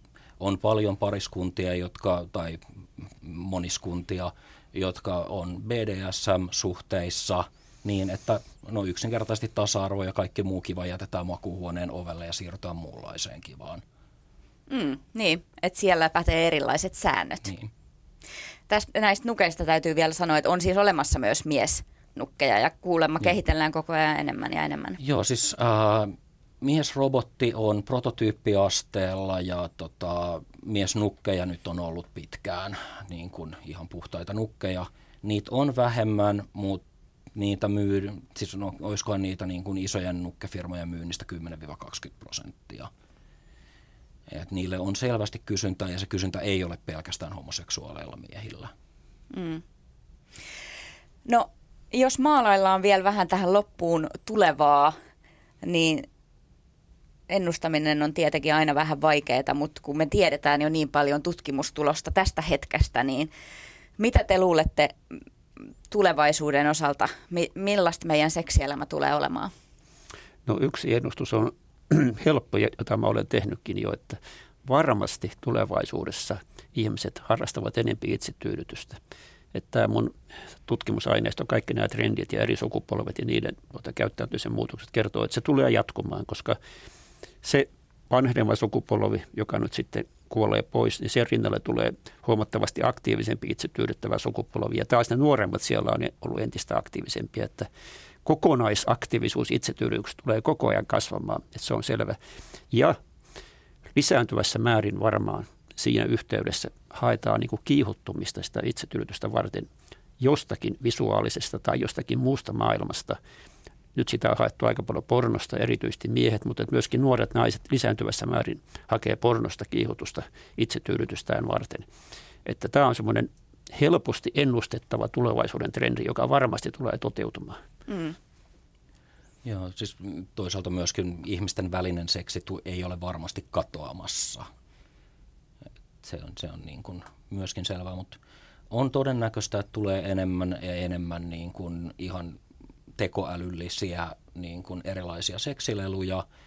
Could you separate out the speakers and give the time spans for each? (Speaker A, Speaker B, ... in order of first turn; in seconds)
Speaker A: 0.4-13.8, 25.0-36.8, 37.3-42.9, 44.3-48.7, 129.4-134.4, 136.0-138.2, 138.7-142.4, 143.0-146.2
Speaker B: 14.7-17.5, 18.7-25.0, 49.3-49.6, 51.2-54.9, 55.6-56.0, 57.3-63.3, 64.0-65.0, 65.9-69.5, 127.9-128.2
Speaker C: 70.5-79.0, 79.5-86.6, 87.4-97.7, 98.2-102.2, 102.7-103.0, 103.9-113.2, 113.9-121.9, 122.4-127.6